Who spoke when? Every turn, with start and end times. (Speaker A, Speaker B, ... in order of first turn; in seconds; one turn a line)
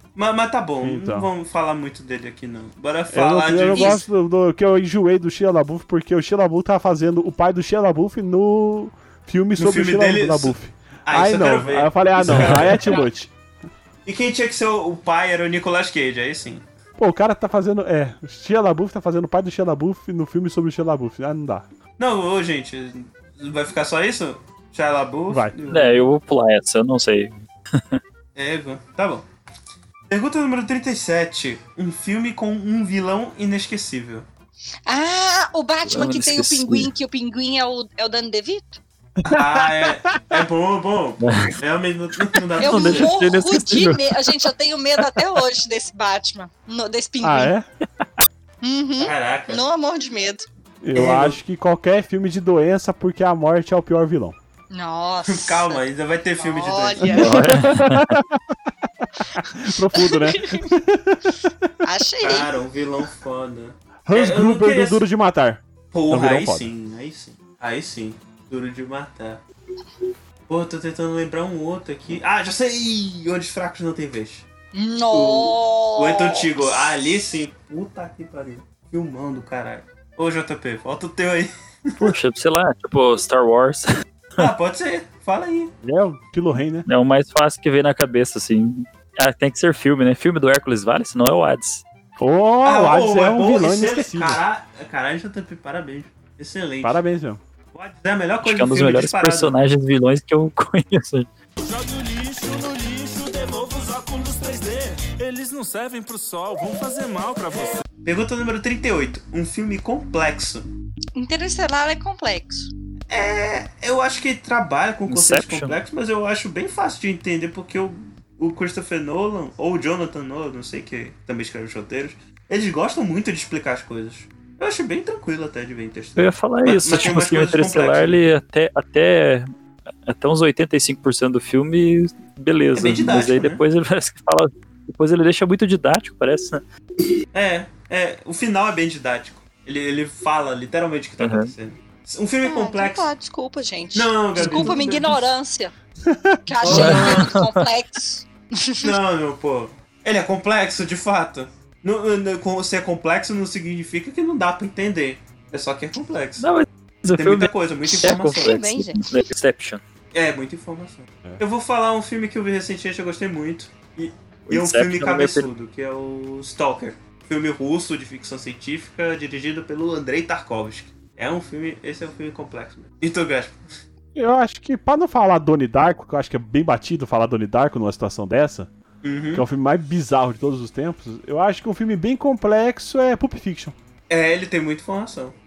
Speaker A: 0.1-4.0
Speaker B: 0.8-1.3
Speaker B: 3.1-13.3
Speaker C: 3.7-4.0
Speaker A: 9.6-13.1
Speaker A: 14.0-16.6
Speaker B: 17.0-21.6
Speaker A: 22.0-26.1
Speaker B: 25.3-25.6
Speaker D: 25.7-28.0
Speaker A: 28.4-29.2
Speaker A: 30.1-34.2
Speaker C: 34.9-38.8
Speaker D: 35.9-36.9
Speaker A: 39.2-43.1
Speaker B: 39.3-40.2
Speaker D: 41.2-41.6
Speaker D: 42.4-44.3
Speaker C: 42.6-47.5
Speaker B: 47.2-47.7
Speaker C: 48.6-50.5
Speaker A: 49.0-49.6
Speaker B: 50.8-54.4
Speaker A: 50.9-51.4
Speaker C: 54.7-55.8
Speaker A: 55.2-57.3
Speaker C: 56.4-57.6
Speaker D: 57.1-58.1
Speaker B: 57.3-58.4
Speaker B: 59.0-61.6
Speaker C: 59.9-60.7
Speaker C: 61.8-62.5
Speaker A: 62.2-65.0
Speaker B: 64.1-66.7
Speaker A: 65.9-69.4
Speaker A: 70.5-74.5
Speaker C: 74.7-76.8
Speaker A: 75.1-81.9
Speaker D: 82.0-84.5
Speaker A: 84.4-85.7
Speaker B: 85.8-86.8
Speaker D: 86.9-91.8
Speaker B: 92.2-94.4
Speaker A: 92.6-97.0
Speaker B: 96.8-97.4
Speaker A: 97.7-99.5
Speaker D: 98.4-101.3
Speaker E: 101.6-107.8
Speaker A: 108.0-110.7
Speaker C: 111.2-112.7
Speaker A: 113.1-128.2
Speaker D: 115.1-115.8
Speaker D: 126.2-129.5
Speaker D: 130.1-136.6
Speaker A: 132.7-133.6
Speaker A: 137.3-143.1
Speaker D: 141.2-141.5
Speaker C: 142.4-145.7
Speaker A: 143.9-145.3
Speaker B: 144.4-144.8
Speaker B: 146.1-146.4
Speaker C: 146.4-148.9
Speaker A: 146.6-147.3
Speaker D: 146.7-147.6
Speaker A: 148.8-156.5
Speaker D: 156.4-159.8
Speaker A: 157.2-158.6
Speaker C: 158.3-159.2
Speaker A: 160.1-173.6
Speaker D: 164.5-165.5
Speaker B: 174.2-178.7
Speaker A: 179.0-179.4
Speaker B: 179.3-183.7
Speaker A: 184.1-185.3